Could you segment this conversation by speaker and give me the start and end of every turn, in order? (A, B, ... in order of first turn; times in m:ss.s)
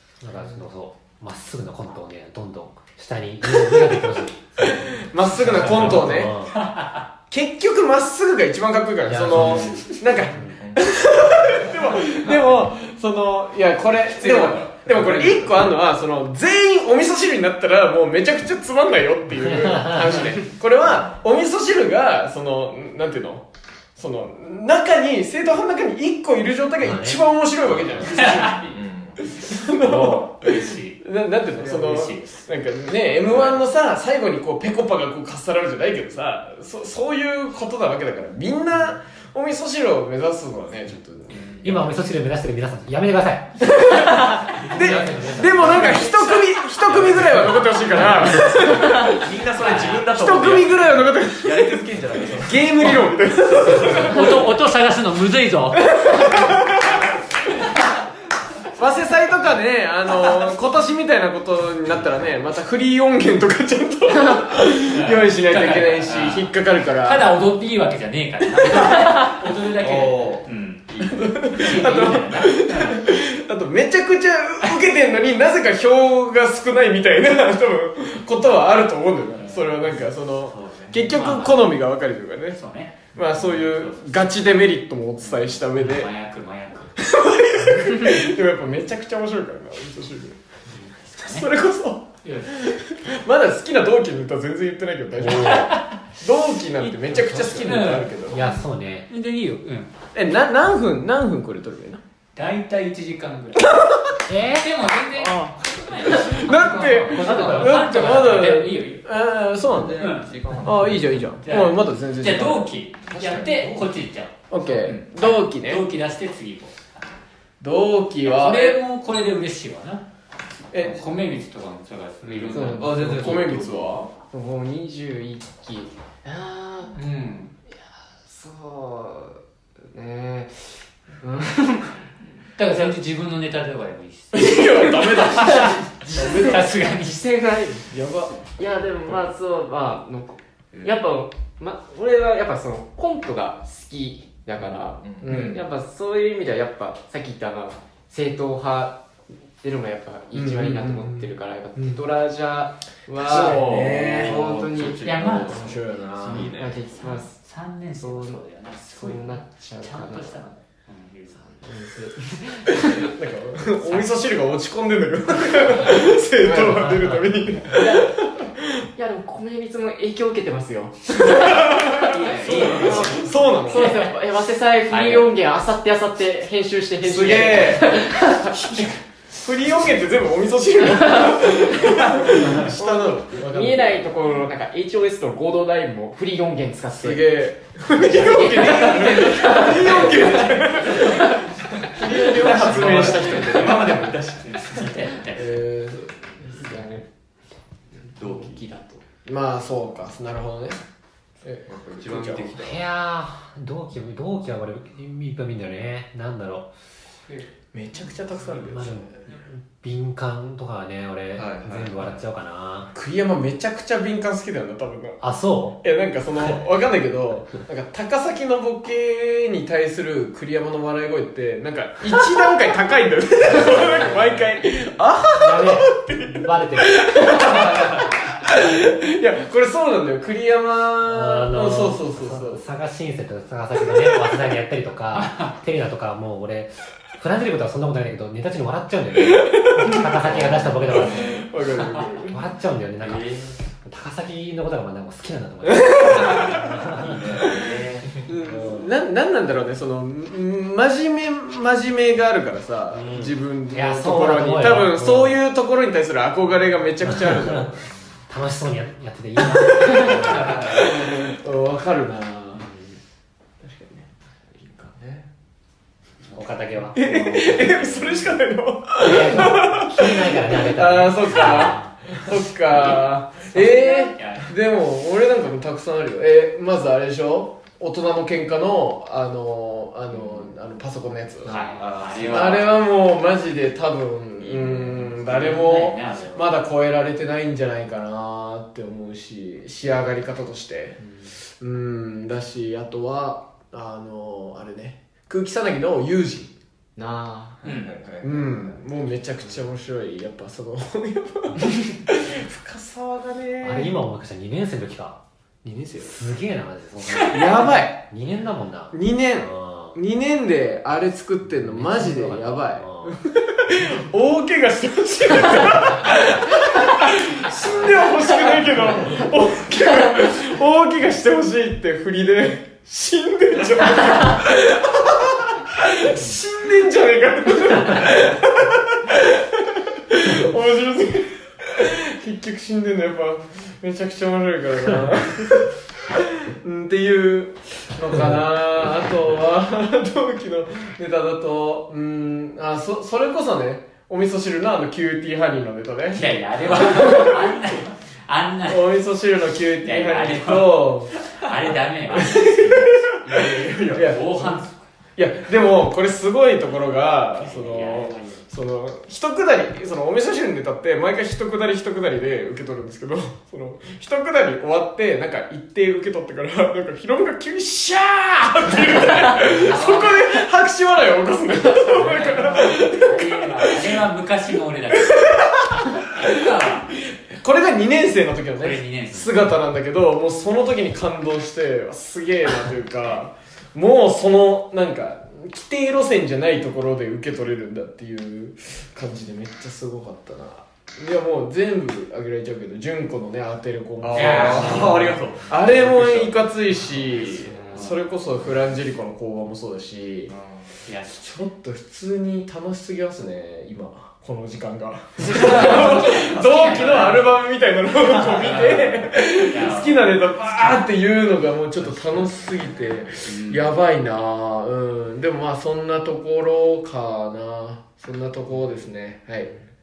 0:00.2-0:06.6 A
0:04.7-0:06.4 B
0:06.5-0:07.0 C
0:07.3-0:41.8 B
0:09.1-0:10.6 A
0:10.6-0:12.5 D
0:14.1-0:15.7 D
0:19.4-0:20.3 A
0:26.8-0:27.2 A
0:27.8-0:29.2 D
0:28.1-0:28.5 C
0:29.8-0:31.0 C
0:31.6-0:32.4 C
0:33.2-0:33.6 C
0:41.3-0:41.6 C
0:41.6-0:43.8 A
0:43.8-0:49.3 B
0:44.7-0:46.2 D
0:44.8-0:48.7 C
0:45.2-0:46.1 A
0:47.9-0:53.0 D
0:49.6-0:50.1 C
0:50.1-0:51.9 B
0:52.4-0:54.4 B
0:53.6-0:54.1 D
0:53.8-0:57.1 C
0:55.8-0:57.0 B
0:58.8-1:07.3 B
1:04.9-1:13.1 C
1:09.8-1:11.2 D
1:11.2-1:26.1 B
1:19.3-1:20.0 C
1:21.1-1:21.7 C
1:22.6-1:24.1 C
1:25.2-1:27.0 C
1:27.0-1:30.4 B
1:30.7-1:31.5 C
1:31.2-1:38.4 B
1:32.2-1:32.7 C
1:35.2-1:35.6 A
1:35.2-1:36.0 C
1:36.8-1:39.9 C
1:38.3-1:39.1 A
1:40.1-1:42.0 B
1:42.4-1:43.7 C
1:43.6-1:43.9 B
1:44.3-1:44.7 A
1:44.5-1:49.0 C
1:46.0-1:50.0 B
1:47.6-1:48.0 A
1:49.7-1:51.3 D
1:50.0-1:50.3 C
1:50.6-1:52.7 B
1:51.4-1:57.1 C
1:53.1-1:53.9 D
1:54.5-1:55.8 B
1:57.6-1:58.8 B
1:58.2-2:00.0 C
2:00.7-2:01.1 B
2:00.7-2:03.5 C
2:02.2-2:03.9 D
2:02.5-2:03.4 E
2:03.0-2:04.1 B
2:04.3-2:07.0 E
2:06.9-2:07.5 C
2:08.2-2:12.1 E
2:12.6-2:17.2 C
2:14.3-2:16.6 B
2:14.8-2:17.9 E
2:17.9-2:18.4 B
2:18.6-2:29.0 E
2:25.0-2:25.3 D
2:25.2-2:25.6 B
2:29.6-2:35.7 E
2:30.3-2:32.0 B
2:33.1-2:34.4 B
2:33.2-2:36.8 D
2:35.0-2:35.7 C
2:35.6-2:36.5 B
2:36.3-2:37.4 E
2:37.0-2:41.4 C
2:38.0-2:40.4 E
2:41.4-2:43.1 E
2:42.8-2:48.5 B
2:46.4-2:48.1 E
2:49.0-2:58.9 E
2:51.3-2:54.0 B
2:51.6-2:54.2 C
2:52.4-2:53.2 D
2:54.9-2:55.3 C
2:57.0-2:58.9 D
2:57.2-2:57.9 B
2:59.4-3:04.1 B
3:01.1-3:01.4 E
3:02.5-3:07.3 E
3:07.0-3:11.4 B
3:08.0-3:11.4 E
3:08.1-3:11.4 C
3:09.5-3:11.0 D
3:11.9-3:13.9 B
3:12.0-3:16.0 C
3:12.6-3:14.0 D
3:15.3-3:16.1 B
3:16.4-3:17.1 E
3:17.9-3:19.0 E
3:18.2-3:18.7 D
3:19.2-3:20.8 B
3:21.4-3:22.6 B
3:21.7-3:22.8 D
3:22.6-3:26.7 A
3:27.7-3:29.1 B
3:28.7-3:32.9 A
3:31.4-3:32.0 D
3:32.9-3:35.2 B
3:35.2-3:35.8 A
3:35.8-3:52.6 B
3:43.5-3:44.6 A
3:45.4-3:47.8 A
3:47.6-3:48.0 D
3:51.0-4:01.4 A
3:55.1-3:55.5 C
3:59.5-4:02.4 B
4:00.2-4:01.4 D
4:02.3-4:07.2 A
4:03.0-4:03.6 C
4:05.7-4:06.7 B
4:06.9-4:08.3 D
4:07.4-4:08.2 C
4:08.3-4:17.9 B
4:12.9-4:15.4 A
4:17.0-4:17.6 A
4:18.3-4:20.8 A
4:19.6-4:22.7 B
4:20.0-4:20.9 C
4:20.5-4:20.8 D
4:22.6-4:23.0 E
4:23.6-4:24.1 B
4:24.6-4:25.2 D
4:26.3-4:28.3 A
4:26.9-4:41.6 B
4:27.1-4:27.7 C
4:29.0-4:31.8 A
4:32.7-4:34.5 C
4:41.5-4:42.8 C
4:41.5-4:42.6 D
4:42.2-4:51.0 B
4:44.4-4:46.5 C
4:51.6-4:56.5 B
4:57.0-4:57.6 E
4:57.6-4:58.8 D
4:57.6-4:58.0 C
4:58.2-5:04.0 B
5:03.6-5:05.2 A
5:05.6-5:06.1 B
5:06.0-5:10.0 A
5:07.2-5:07.6 C
5:07.3-5:08.0 B
5:08.9-5:47.5 B
5:11.6-5:13.2 A
5:46.1-5:48.9 C
5:48.7-5:51.2 B
5:49.8-5:54.9 C
5:52.1-5:53.2 B
5:53.3-5:54.2 D
5:53.9-5:54.6 B
5:55.2-6:14.0 B
5:57.4-5:58.4 C
6:09.4-6:10.3 C
6:11.9-6:17.0 C
6:14.9-6:40.3 B
6:18.6-6:19.6 C
6:34.0-6:36.4 D
6:34.1-6:35.2 C
6:37.2-6:37.9 E
6:40.3-6:40.8 D
6:40.8-6:41.2 C
6:41.1-6:59.5 B
6:45.2-6:47.4 C
6:45.2-6:46.1 E
6:48.1-6:50.9 C
6:53.3-6:53.7 C